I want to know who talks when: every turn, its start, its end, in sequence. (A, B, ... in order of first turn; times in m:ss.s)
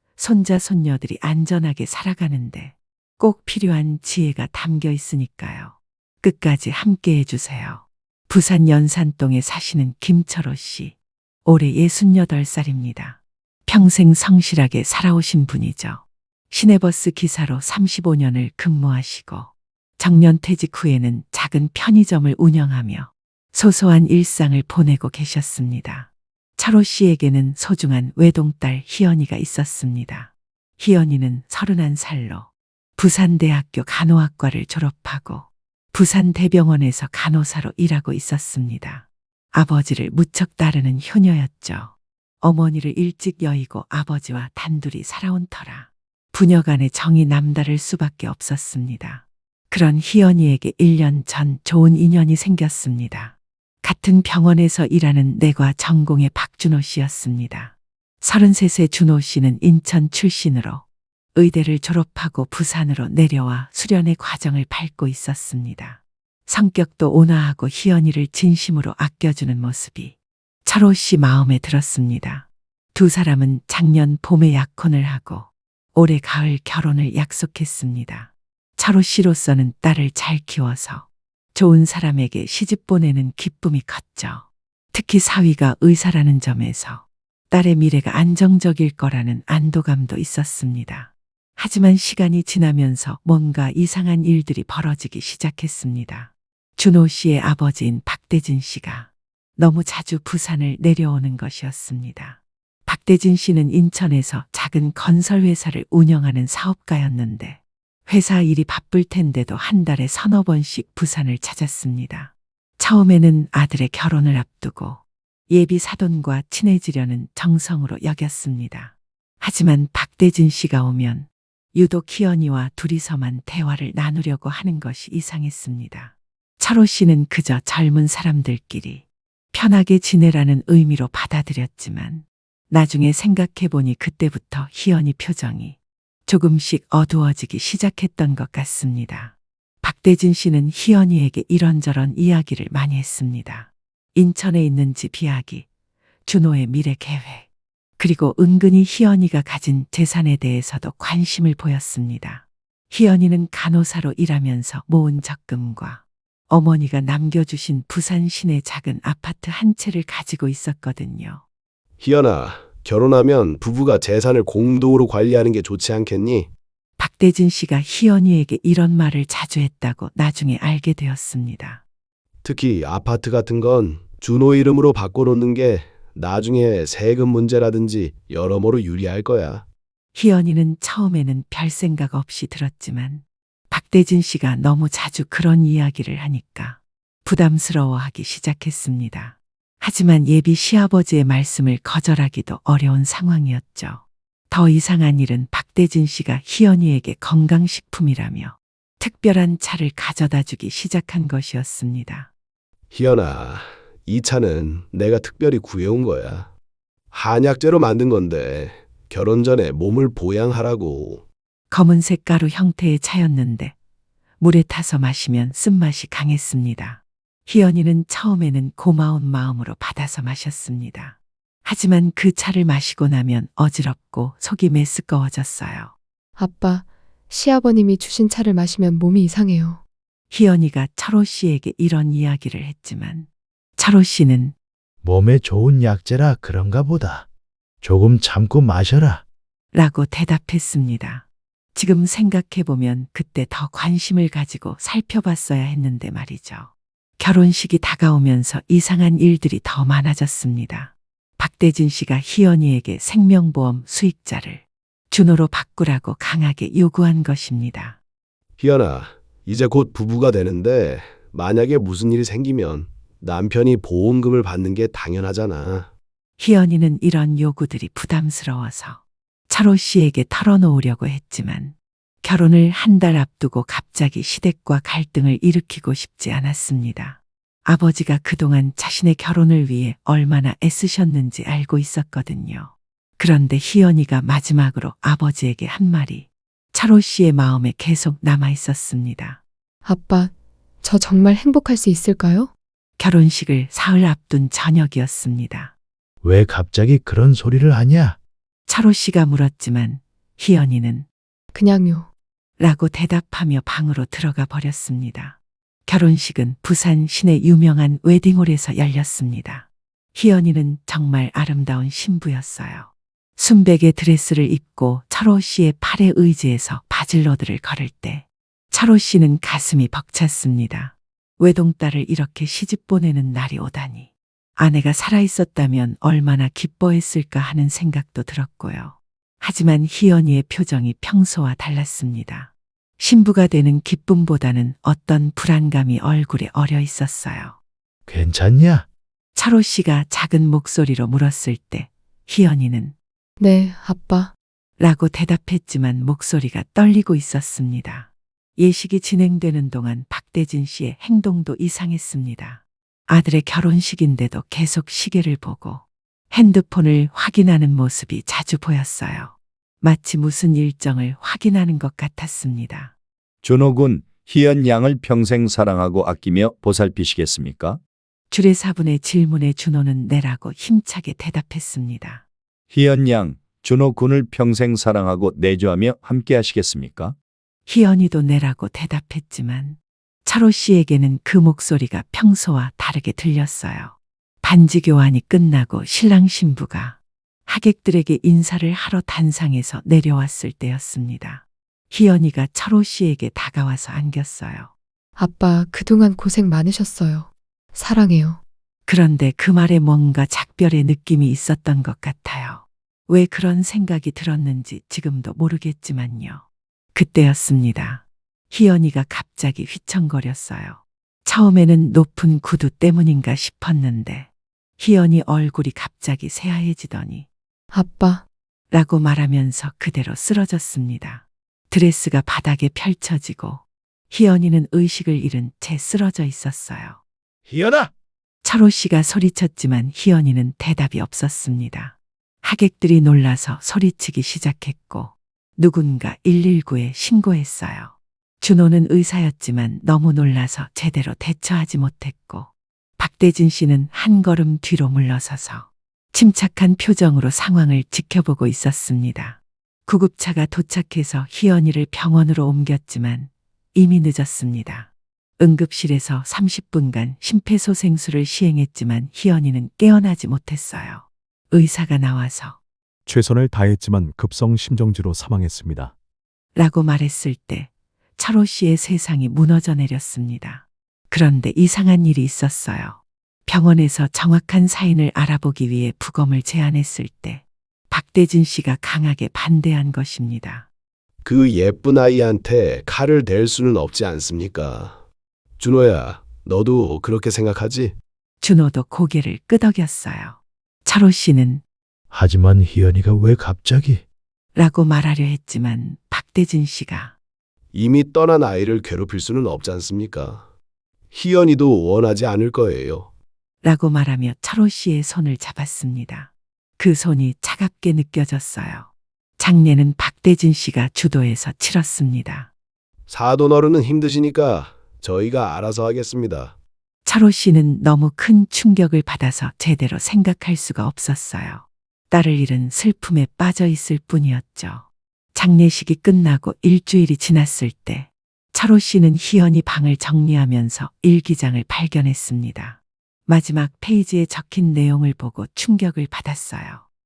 0:00.2-0:10.9 A
0:11.4-1:00.8 A
1:01.4-1:10.1 A
1:10.7-2:15.8 A
2:16.3-2:25.7 A
2:26.3-2:27.5 A
2:28.0-2:41.4 A
2:42.0-2:46.5 B
2:47.0-2:51.8 A
2:52.4-2:59.6 B
3:00.2-3:22.3 A
3:22.9-3:26.5 B
3:27.1-3:31.2 B
3:31.7-3:33.7 A
3:34.4-3:45.9 A
3:46.4-3:49.8 C
3:50.3-3:53.3 A
3:53.8-3:54.6 A
3:55.0-3:57.3 D
3:57.8-3:59.2 D
3:59.7-4:18.0 A
4:18.6-4:25.9 B
4:26.4-4:49.4 A
4:49.8-4:52.5 C
4:53.0-4:55.7 A
4:56.2-4:58.2 D
4:58.7-5:01.1 A
5:01.5-5:02.1 C
5:02.6-5:37.6 A
5:38.1-5:38.9 D
5:39.4-5:42.9 A
5:43.4-5:44.3 C
5:44.8-6:02.9 A
6:03.4-6:07.8 E
6:08.3-6:12.2 A
6:12.7-6:17.2 E
6:17.7-6:34.7 A
6:35.2-6:38.4 C
6:38.9-6:46.4 A
6:46.9-6:57.3 A
6:57.7-6:58.2 C
6:58.7-7:07.0 A
7:07.5-7:07.9 D
7:08.4-7:42.6 A
7:43.1-7:45.9 F
7:46.6-8:00.7 A
8:01.2-8:05.0 B
8:05.6-8:08.0 B
8:08.4-8:11.6 A
8:12.1-8:14.0 D
8:14.6-8:17.1 A
8:17.7-8:20.5 B
8:21.1-8:23.1 B
8:23.6-8:32.5 A
8:33.1-8:36.6 B
8:37.1-8:56.8 A